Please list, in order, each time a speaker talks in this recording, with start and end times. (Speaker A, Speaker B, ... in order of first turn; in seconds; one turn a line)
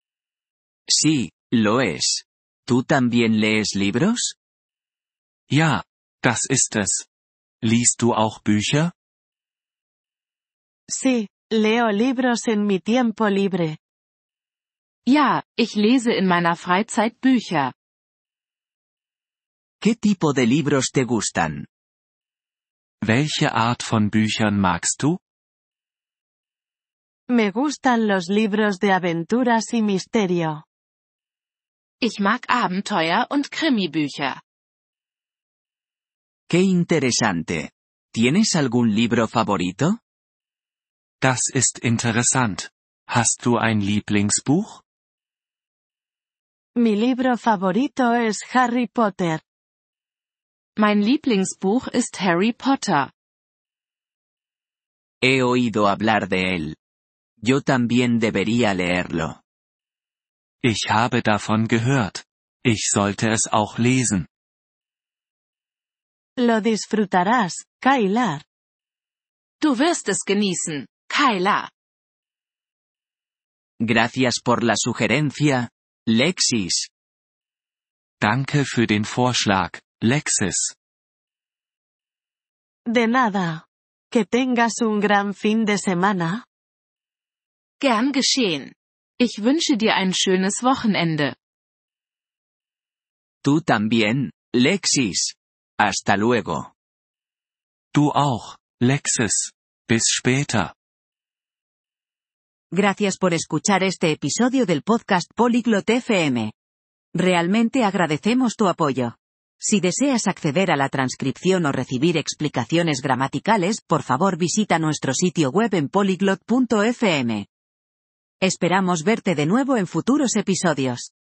Speaker A: 0.9-4.4
Speaker B: 5.5-7.1
Speaker B: 7.6-8.9
Speaker C: 10.9-13.8
Speaker D: 15.1-17.7
Speaker A: 19.8-21.7
Speaker B: 23.0-25.2
Speaker C: 27.3-30.6
Speaker D: 32.0-34.4
Speaker A: 36.5-40.0
Speaker B: 41.2-44.8
Speaker C: 46.8-49.4
Speaker D: 50.8-53.1
Speaker A: 55.2-56.8
Speaker A: 57.4-59.4
Speaker B: 60.6-64.3
Speaker C: 66.4-68.4
Speaker D: 69.6-71.7
Speaker A: 73.8-76.9
Speaker B: 78.2-80.7
Speaker C: 82.9-86.4
Speaker D: 87.8-91.3
Speaker A: 93.4-96.7
Speaker B: 97.9-100.7
Speaker E: 102.7-106.5
Speaker E: 107.2-117.5
Speaker E: 118.4-121.1